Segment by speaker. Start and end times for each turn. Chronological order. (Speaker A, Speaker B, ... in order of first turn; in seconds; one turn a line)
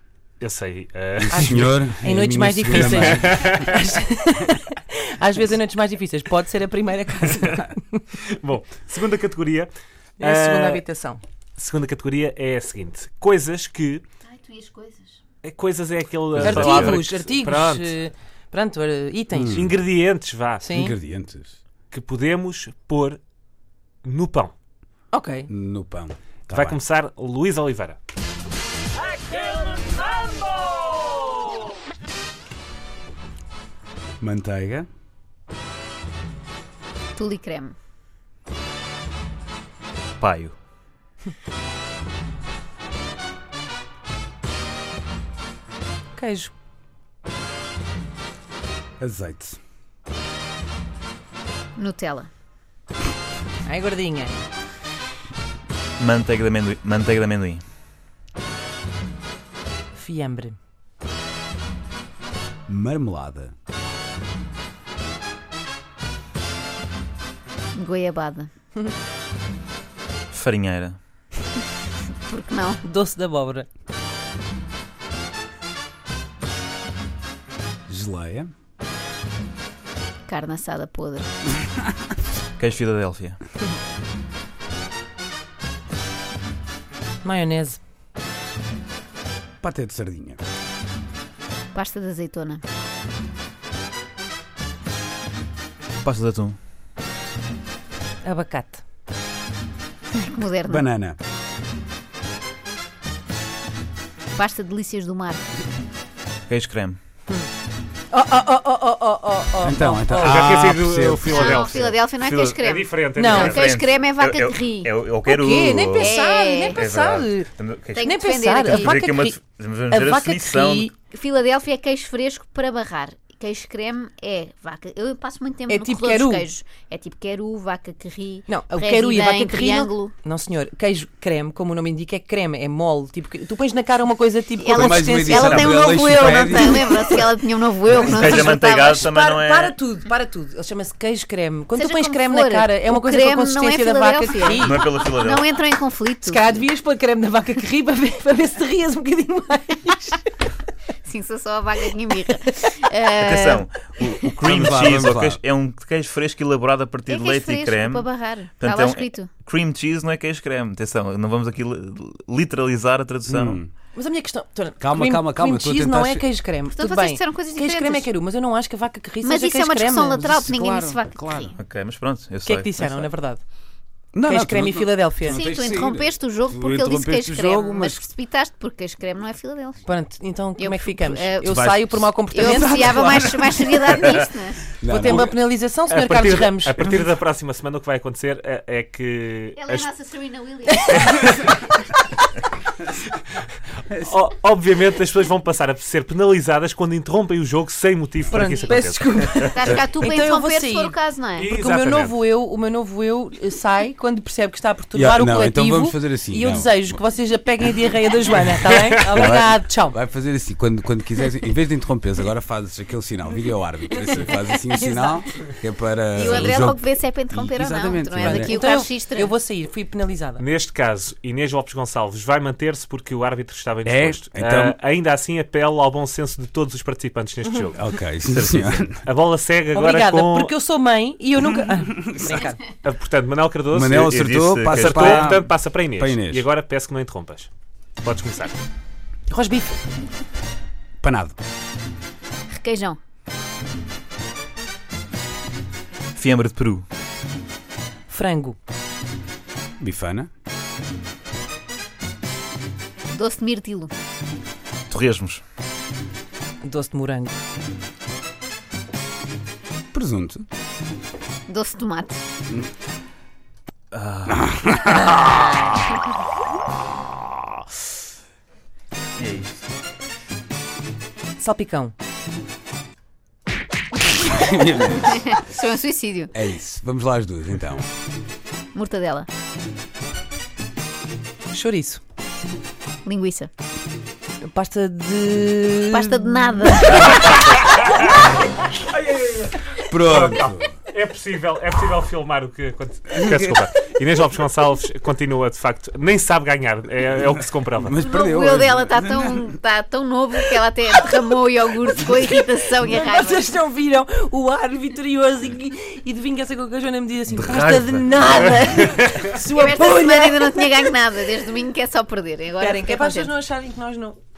Speaker A: 0.4-1.8
Speaker B: 1.3-8.0
Speaker C: 1.3-3.6
Speaker A: 2.7-3.9
Speaker A: 8.2-10.8
Speaker B: 10.2-11.2
Speaker A: 11.6-14.0
Speaker D: 14.2-15.2
Speaker A: 15.4-18.0
Speaker B: 16.4-19.5
Speaker E: 16.5-16.9
Speaker C: 19.3-19.8
Speaker A: 19.5-20.7
Speaker B: 20.6-20.9
Speaker C: 20.7-21.6
Speaker A: 21.9-23.2
Speaker A: 24.0-24.5
Speaker B: 25.1-25.5
Speaker C: 25.5-26.8
Speaker A: 26.5-28.0
Speaker C: 34.2-34.9
Speaker D: 37.1-37.7
Speaker E: 40.2-40.5
Speaker B: 46.1-46.5
Speaker C: 49.0-49.6
Speaker D: 51.8-52.3
Speaker B: 53.6-54.4
Speaker E: 56.0-57.6
Speaker B: 59.9-60.5
Speaker C: 62.7-63.5
Speaker D: 67.7-68.5
Speaker E: 70.3-71.0
Speaker D: 72.3-72.8
Speaker B: 72.8-73.7
Speaker C: 77.9-78.5
Speaker D: 80.3-81.3
Speaker E: 82.6-83.3
Speaker B: 87.2-87.8
Speaker C: 89.6-90.4
Speaker D: 91.7-92.6
Speaker E: 96.0-96.5
Speaker B: 98.2-98.8
Speaker D: 100.1-100.8
Speaker C: 100.7-101.2
Speaker D: 104.3-105.4
Speaker E: 106.5-107.0
Speaker B: 108.1-110.5
Speaker C: 109.6-111.5
Speaker A: 110.1-113.7
Speaker D: 111.2-115.0
Speaker E: 112.2-112.5
Speaker B: 113.1-113.5
Speaker E: 113.4-116.1
Speaker B: 115.2-120.9
Speaker D: 115.9-116.8
Speaker E: 116.8-118.1
Speaker D: 117.9-119.0
Speaker E: 118.6-120.9
Speaker D: 121.1-130.1
Speaker B: 125.7-126.5
Speaker B: 128.5-137.3
Speaker D: 134.6-139.0
Speaker C: 134.7-136.9
Speaker E: 135.3-135.7
Speaker E: 137.9-139.7
Speaker B: 139.0-144.9
Speaker D: 141.7-146.5
Speaker E: 144.6-145.5
Speaker B: 146.2-150.2
Speaker D: 151.0-154.1
Speaker E: 153.2-163.6
Speaker C: 154.2-155.4
Speaker D: 157.1-159.3
Speaker C: 163.2-163.7
Speaker B: 163.9-170.4
Speaker C: 164.8-166.2
Speaker D: 166.7-168.1
Speaker D: 169.2-171.6
Speaker C: 170.2-171.5
Speaker E: 171.6-172.8
Speaker B: 172.4-173.4
Speaker C: 174.1-178.1
Speaker B: 174.2-175.4
Speaker D: 175.3-179.8
Speaker B: 179.8-184.0
Speaker D: 180.6-181.6
Speaker C: 181.4-184.1
Speaker D: 182.3-184.8
Speaker C: 184.8-185.3
Speaker B: 184.9-186.8
Speaker A: 185.9-189.9
Speaker D: 189.6-191.2
Speaker B: 190.7-191.2
Speaker A: 190.9-191.6
Speaker A: 193.9-199.5
Speaker B: 198.3-210.0
Speaker D: 199.4-201.5
Speaker A: 201.4-202.2
Speaker C: 204.9-207.0
Speaker C: 209.1-218.5
Speaker D: 214.1-215.1
Speaker D: 216.1-219.3
Speaker B: 218.2-220.4
Speaker A: 220.4-230.5
Speaker C: 223.8-224.8
Speaker C: 227.7-229.0
Speaker B: 229.7-232.6
Speaker A: 232.8-237.5
Speaker C: 233.7-236.4
Speaker E: 234.2-235.3
Speaker A: 238.0-238.6
Speaker B: 239.3-239.8
Speaker C: 241.0-241.3
Speaker D: 242.5-243.0
Speaker E: 246.1-246.8
Speaker B: 248.1-248.6
Speaker C: 249.8-250.3
Speaker D: 253.1-253.9
Speaker E: 254.9-255.4
Speaker B: 256.6-257.4
Speaker C: 259.9-260.4
Speaker D: 261.5-262.2
Speaker E: 263.9-264.4
Speaker C: 264.3-265.9
Speaker E: 269.2-269.6
Speaker B: 271.4-271.9
Speaker C: 274.1-275.3
Speaker D: 275.1-276.3
Speaker C: 276.3-277.9
Speaker D: 278.7-279.3
Speaker B: 281.5-282.0
Speaker D: 283.0-283.5
Speaker B: 284.4-286.9
Speaker D: 285.9-287.2
Speaker A: 289.1-289.4
Speaker C: 289.7-290.7
Speaker A: 290.0-297.9
Speaker C: 293.1-293.6
Speaker C: 297.7-299.5
Speaker D: 298.0-303.5
Speaker B: 302.1-311.0
Speaker C: 307.3-308.1
Speaker D: 309.4-313.3
Speaker B: 312.6-314.2